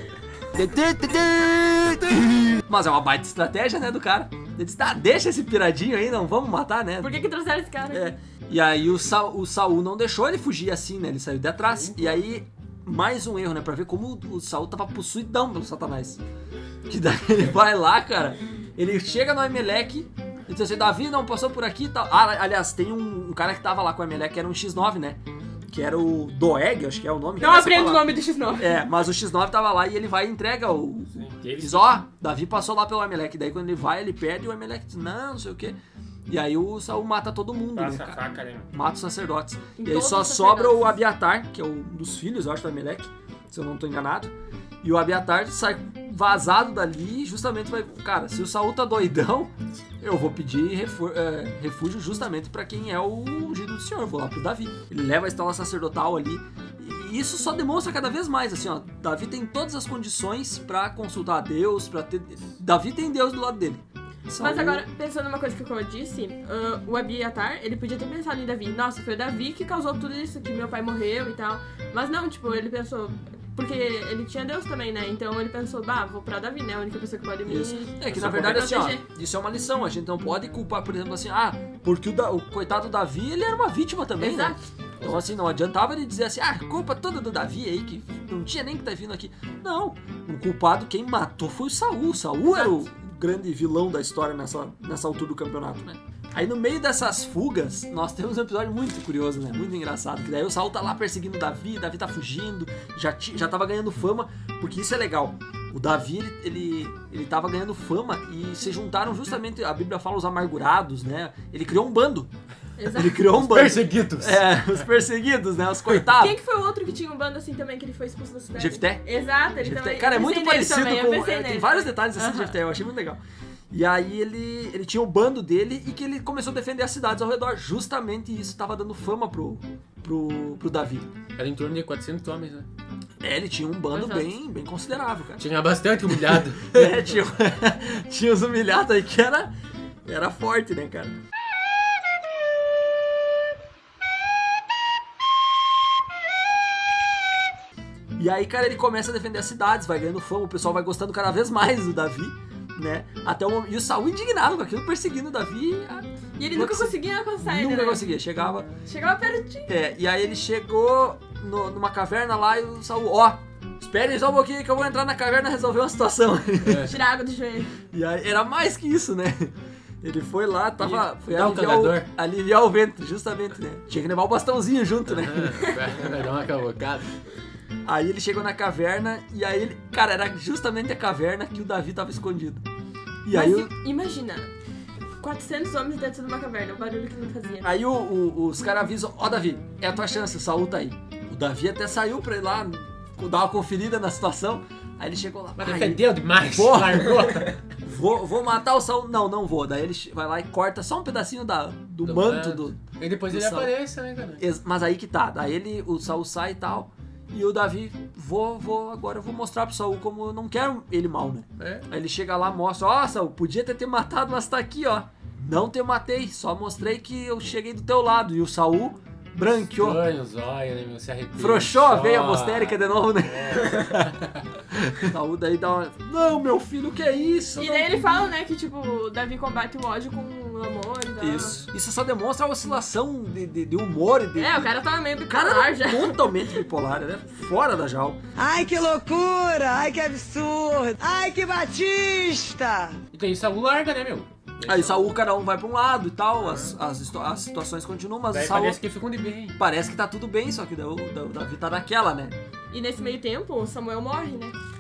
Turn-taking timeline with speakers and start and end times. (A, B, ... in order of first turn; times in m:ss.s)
0:00.5-0:07.2 A
0:07.0-0:08.1 B
0:07.9-0:16.2 A
0:11.7-0:12.2 C
0:16.9-0:35.8 A
0:27.4-0:28.8 B
0:31.1-0:32.0 C
0:36.3-0:38.2 A
0:37.8-0:38.7 C
0:38.7-1:04.9 A
0:39.8-0:40.9 B
1:04.4-1:19.0 B
1:17.5-1:52.3 A
1:18.1-1:18.6 C
1:24.2-1:24.7 B
1:25.0-1:25.4 C
1:32.5-1:32.8 B
1:52.8-1:53.2 B
1:52.9-1:56.4 A
1:53.3-1:54.8 C
1:56.2-2:02.6 B
1:58.6-1:59.1 A
1:59.6-2:11.1 A
2:11.4-2:12.7 C
2:13.2-2:15.4 A
2:13.9-2:14.3 B
2:15.4-2:17.1 C
2:16.1-2:19.5 A
2:20.0-2:21.2 A
2:28.2-2:38.7 A
2:36.4-2:38.0 B
2:38.9-2:39.7 B
2:39.7-2:47.0 A
2:46.6-2:47.0 C
2:46.8-2:47.7 B
2:47.9-2:55.8 A
2:50.8-2:52.1 C
2:55.1-2:57.1 C
2:57.8-3:02.6 A
3:03.2-3:03.7 A
3:03.3-3:04.5 B
3:05.2-3:07.8 B
3:07.6-3:23.7 A
3:15.6-3:17.6 C
3:22.0-3:24.4 C
3:24.4-3:40.0 A
3:31.6-3:31.9 C
3:39.7-3:44.4 C
3:41.4-3:44.1 A
3:44.7-3:48.3 A
3:47.6-3:51.6 B
3:51.2-3:54.7 A
3:54.4-3:56.5 B
3:55.3-3:58.2 A
3:58.4-4:03.0 D
4:03.1-4:05.1 C
4:04.6-4:08.8 A
4:06.4-4:06.8 C
4:08.3-4:09.6 C
4:09.6-4:12.4 A
4:12.7-4:14.6 B